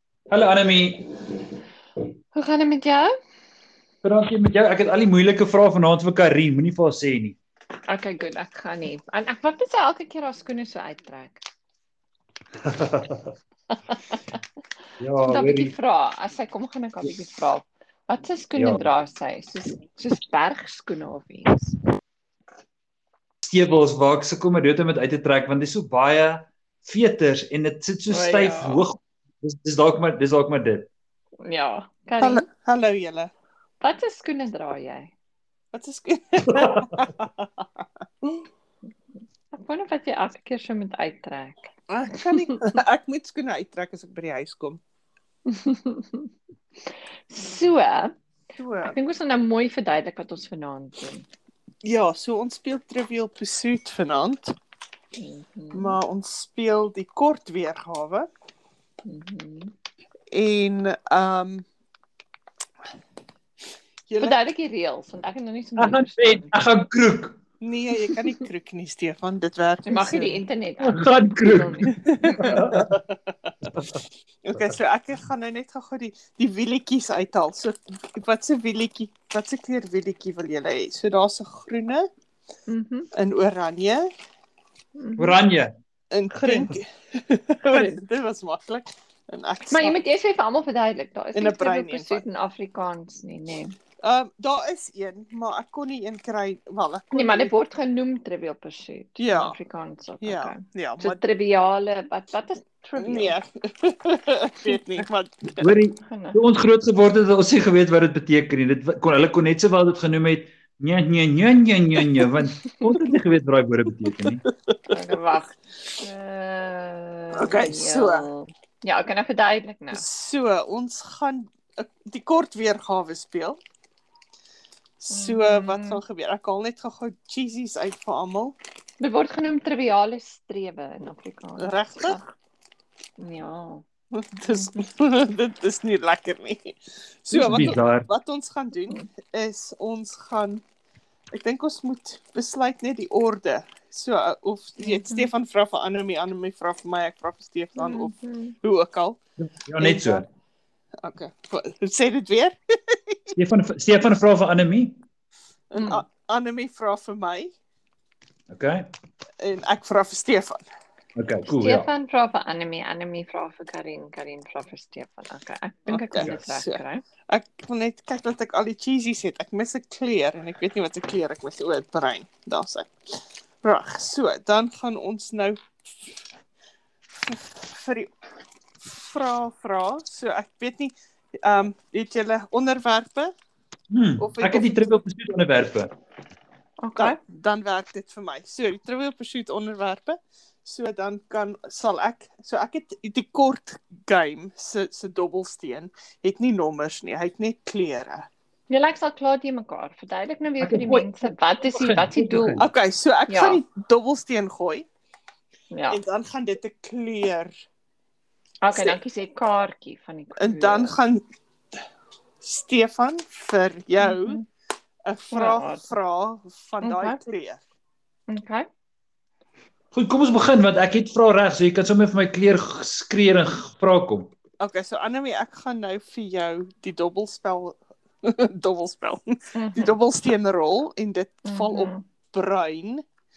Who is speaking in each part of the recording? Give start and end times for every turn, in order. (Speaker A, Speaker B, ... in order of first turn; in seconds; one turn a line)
Speaker A: 0.3-1.1
Speaker B: 2.3-3.1
Speaker A: 4.0-7.4
Speaker B: 7.9-11.4
Speaker A: 12.6-13.3
Speaker B: 13.9-14.3
Speaker A: 15.0-15.7
Speaker B: 15.2-21.7
Speaker A: 18.6-18.9
Speaker A: 23.4-30.9
Speaker B: 28.1-28.8
Speaker B: 31.4-32.4
Speaker C: 32.2-33.3
Speaker B: 33.8-35.1
Speaker C: 35.7-37.5
Speaker A: 36.5-37.0
Speaker B: 39.5-41.7
Speaker C: 41.9-44.8
Speaker B: 45.5-46.3
Speaker B: 47.3-48.1
Speaker C: 48.6-49.0
Speaker B: 48.8-51.3
Speaker C: 51.8-54.5
Speaker B: 55.1-56.0
Speaker C: 55.7-58.3
Speaker B: 59.0-59.7
Speaker C: 60.3-61.6
Speaker C: 64.1-64.4
Speaker B: 64.2-66.5
Speaker A: 65.8-67.4
Speaker C: 67.6-70.4
Speaker B: 69.8-72.7
Speaker A: 70.8-73.0
Speaker C: 71.9-73.5
Speaker A: 73.6-74.0
Speaker C: 74.4-82.1
Speaker B: 82.7-83.1
Speaker C: 83.1-84.1
Speaker B: 85.0-85.4
Speaker A: 85.2-85.7
Speaker C: 86.1-90.0
Speaker B: 86.4-86.7
Speaker B: 87.7-88.0
Speaker B: 89.7-93.8
Speaker C: 91.3-92.2
Speaker C: 94.0-97.5
Speaker B: 97.1-103.3
Speaker C: 99.2-99.6
Speaker C: 100.2-101.2
Speaker C: 103.0-105.7
Speaker A: 105.6-114.4
Speaker B: 106.0-106.4
Speaker C: 114.7-114.9
Speaker B: 114.9-120.0
Speaker C: 117.3-118.2
Speaker C: 119.9-123.6
Speaker C: 125.0-128.5
Speaker B: 125.1-126.0
Speaker B: 129.0-132.3
Speaker C: 131.6-132.2
Speaker B: 133.2-133.8
Speaker C: 134.1-140.6
Speaker A: 137.3-138.1
Speaker C: 141.3-149.2
Speaker B: 144.8-145.3
Speaker B: 147.8-148.5
Speaker A: 149.4-150.3
Speaker C: 149.8-150.2
Speaker C: 151.0-153.3
Speaker A: 153.3-155.0
Speaker C: 155.7-157.5
Speaker B: 155.8-156.0
Speaker A: 158.5-158.8
Speaker C: 159.4-160.6
Speaker A: 161.1-161.9
Speaker B: 161.5-167.0
Speaker C: 165.9-175.6
Speaker C: 177.2-178.1
Speaker C: 178.8-183.3
Speaker A: 183.9-185.9
Speaker C: 184.2-184.9
Speaker B: 186.8-187.2
Speaker C: 186.9-198.3
Speaker B: 198.7-202.6
Speaker A: 200.6-202.7
Speaker C: 202.6-204.8
Speaker B: 203.3-203.6
Speaker B: 205.7-206.0
Speaker C: 205.9-207.5
Speaker B: 208.6-210.9
Speaker C: 210.4-211.2
Speaker C: 212.4-214.4
Speaker B: 214.0-214.4
Speaker C: 215.0-217.6
Speaker B: 215.3-215.9
Speaker B: 216.8-217.2
Speaker B: 218.3-218.7
Speaker A: 219.9-224.3
Speaker C: 224.6-233.0
Speaker B: 229.5-229.9
Speaker B: 231.4-232.0